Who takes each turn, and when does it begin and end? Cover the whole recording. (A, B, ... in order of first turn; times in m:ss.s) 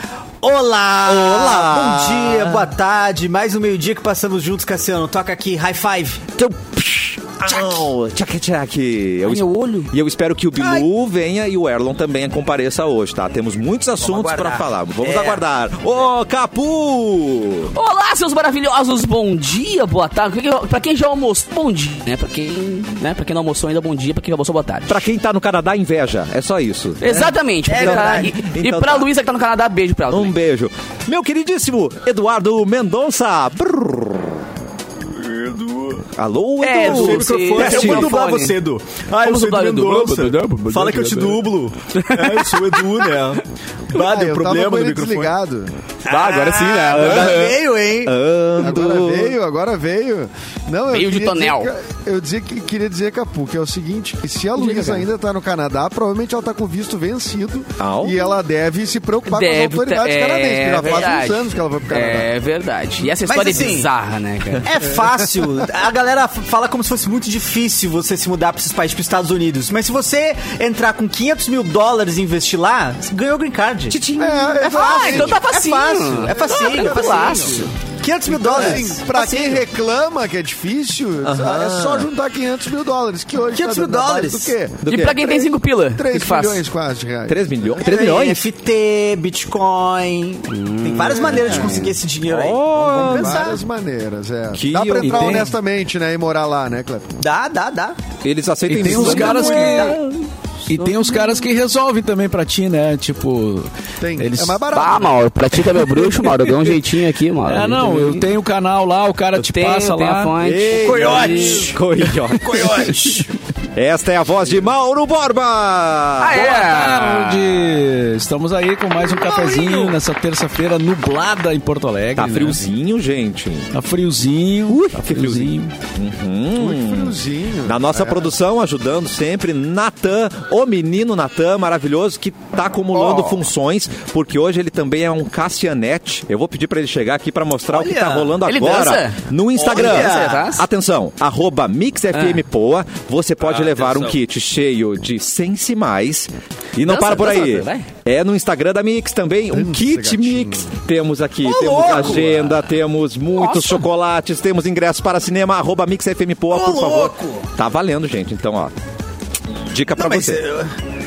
0:00.4-0:06.2 A
0:01.0-0:02.7 B
0:06.4-0:17.7 B
0:09.2-0:09.9 C
0:10.6-0:10.9 A
0:14.0-0:15.4 A
0:17.7-0:25.0 C
0:24.9-0:27.2 B
0:27.0-0:30.4 C
0:27.0-0:28.3 A
0:27.7-0:29.1 B
0:30.1-0:34.4 B
0:35.4-0:36.0 A
0:36.2-0:38.1 B
0:36.6-0:38.5 C
0:36.7-0:44.9 A
0:39.2-0:43.1 C
0:43.9-0:45.7 D
0:44.1-0:45.3 B
0:46.0-0:48.2 A
0:46.1-0:47.6 C
0:48.0-0:49.3 B
0:48.6-1:02.3 D
0:50.9-0:51.7 C
0:54.6-0:55.0 C
0:57.8-0:58.2 B
0:59.3-1:04.7 C
1:03.2-1:03.9 A
1:04.6-1:19.4 A
1:13.9-1:14.6 B
1:14.2-1:15.4 D
1:14.6-1:17.7 C
1:16.2-1:17.7 D
1:18.3-1:25.1 D
1:18.6-1:19.5 C
1:21.2-1:22.1 B
1:23.5-1:24.5 A
1:24.8-1:25.3 B
1:24.9-1:26.6 C
1:25.9-1:27.8 D
1:27.3-1:28.4 B
1:27.8-1:33.6 A
1:30.5-1:32.0 C
1:32.2-1:33.4 B
1:32.8-1:37.2 D
1:34.5-1:35.5 B
1:35.0-1:35.5 E
1:37.2-1:38.0 A
1:38.2-1:40.2 B
1:38.6-1:40.0 E
1:38.9-1:40.1 C
1:40.7-1:44.7 E
1:41.0-1:41.3 C
1:44.0-1:45.2 D
1:44.7-1:48.2 C
1:47.4-1:50.4 E
1:49.3-1:51.6 C
1:50.4-1:53.0 B
1:50.7-1:53.3 A
1:53.7-1:56.4 B
1:56.2-1:57.7 C
1:56.3-2:02.7 E
2:02.2-2:03.7 B
2:03.7-2:05.7 E
2:04.7-2:38.7 B
2:06.5-2:08.3 D
2:12.9-2:13.3 C
2:17.8-2:20.6 C
2:17.9-2:18.3 A
2:19.5-2:20.5 A
2:22.1-2:22.4 C
2:23.5-2:24.1 A
2:26.8-2:27.9 C
2:29.5-2:30.7 D
2:31.4-2:32.6 A
2:33.4-2:33.8 C
2:36.5-2:37.4 A
2:39.7-2:40.4 B
2:39.9-2:40.7 A